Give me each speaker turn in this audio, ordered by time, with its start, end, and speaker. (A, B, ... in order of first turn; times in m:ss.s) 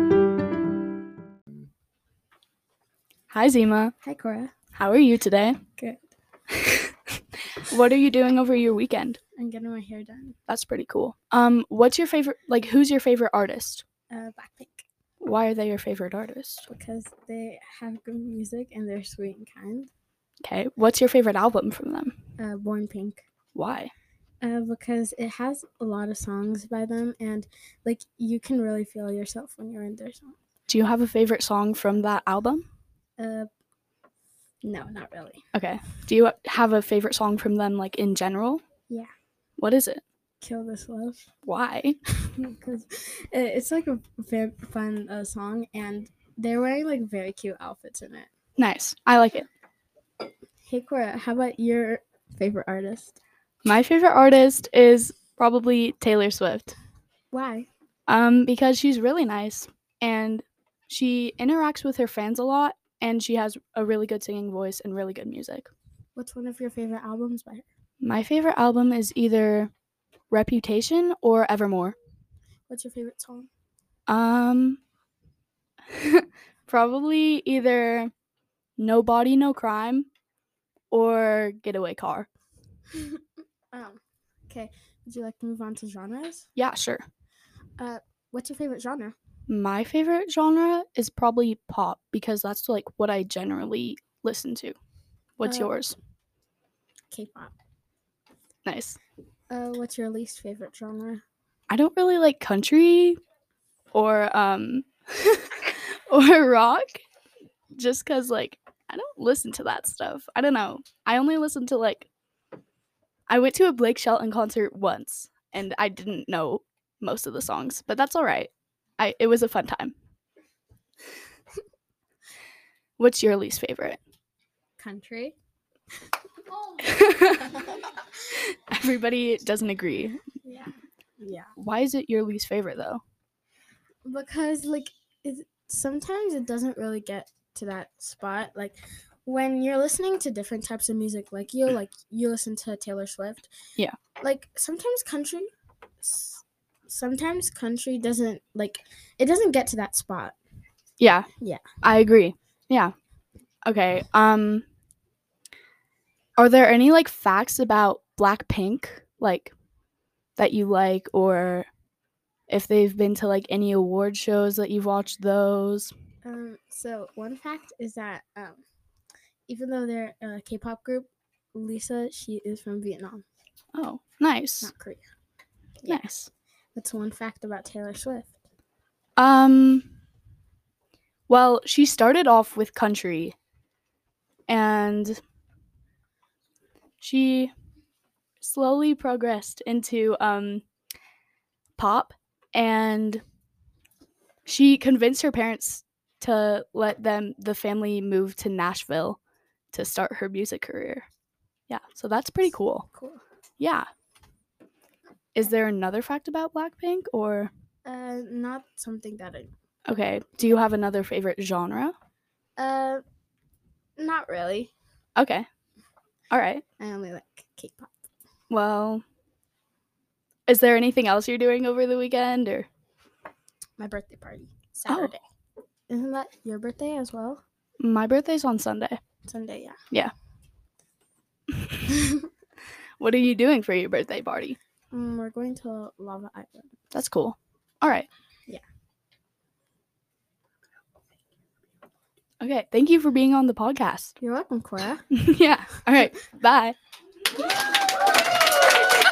0:03.3-0:03.9 A
0:04.0-0:04.5 B
0:04.8-0:05.6 A
0:05.8-0:06.0 B
0:06.6-0:06.9 A
0:07.6-0:09.2 A
0:09.4-0:10.4 B
0:10.5-0:13.8 A
0:14.1-0:14.8 B
0:15.2-0:16.6 A
0:16.7-0:19.9 B
0:20.4-0:22.1 A
0:22.4-0:23.2 B
0:23.5-0:23.9 A
0:24.4-0:30.4 B
0:30.7-0:32.6 A
0:33.2-0:33.5 B
0:34.6-0:35.4 B
0:35.5-0:38.6 A
0:39.6-0:40.0 A
0:40.4-0:41.3 B
0:41.4-0:42.0 A
0:42.1-0:48.3 B
0:48.6-0:49.5 A
0:50.6-0:53.2 B
0:53.6-0:56.8 A
0:57.3-0:57.7 B
0:58.1-1:05.7 A
1:06.2-1:07.6 B
1:08.0-1:09.7 A
1:10.3-1:12.0 A
1:12.7-1:13.5 B
1:14.1-1:14.8 A
1:15.9-1:18.1 A
1:18.8-1:20.0 A
1:20.9-1:22.3 A
1:22.9-1:26.5 B
1:26.6-1:27.0 A
1:27.8-1:29.1 B
1:29.5-1:34.7 A
1:35.4-1:36.0 A
1:35.4-1:35.8 B
1:37.1-1:37.5 B
1:38.6-1:39.0 A
1:39.5-1:41.2 B
1:41.7-1:43.2 A
1:43.9-1:47.0 A
1:47.8-1:52.1 A
1:53.3-1:59.9 A
2:03.0-2:04.0 A
2:04.8-2:05.3 B
2:06.8-2:07.6 A
2:08.5-2:10.2 A
2:10.4-2:11.5 B
2:11.6-2:13.0 A
2:14.0-2:23.5 B
2:24.2-2:25.5 B
2:26.0-2:30.4 B
2:31.0-2:31.3 A
2:31.4-2:31.6 B
2:31.8-2:32.9 A
2:33.6-2:34.6 A
2:36.4-2:39.5 A
2:40.4-2:41.7 A
2:42.5-2:45.9 A
2:46.2-2:48.6 B
2:49.5-2:53.2 B
2:53.7-2:54.7 A
2:54.6-2:55.0 B
2:55.8-2:56.1 B
2:55.9-2:56.3 A
2:56.7-2:58.4 B
2:59.2-2:59.9 A
3:01.3-3:03.3 A
3:04.5-3:05.2 A
3:07.0-3:07.5 A
3:08.4-3:10.6 A
3:11.8-3:13.2 A
3:14.4-3:19.2 A
3:19.7-3:21.0 A
3:21.7-3:22.8 A
3:22.8-3:23.2 B
3:23.6-3:23.9 A
3:25.3-3:27.5 A
3:27.8-3:29.5 B
3:29.9-3:31.9 A
3:32.6-3:33.0 B
3:34.0-3:34.7 B
3:35.2-3:35.4 A
3:36.3-3:36.6 A
3:36.8-3:38.0 B
3:38.5-3:39.0 A
3:40.5-3:42.7 A
3:43.8-3:45.2 B
3:45.9-3:47.4 B
3:47.8-3:49.0 A
3:49.2-3:49.8 B
3:53.0-3:54.6 A
3:54.9-3:56.8 B
3:56.9-3:58.1 A
4:02.4-4:04.1 A
4:04.2-4:05.0 B
4:05.1-4:06.8 A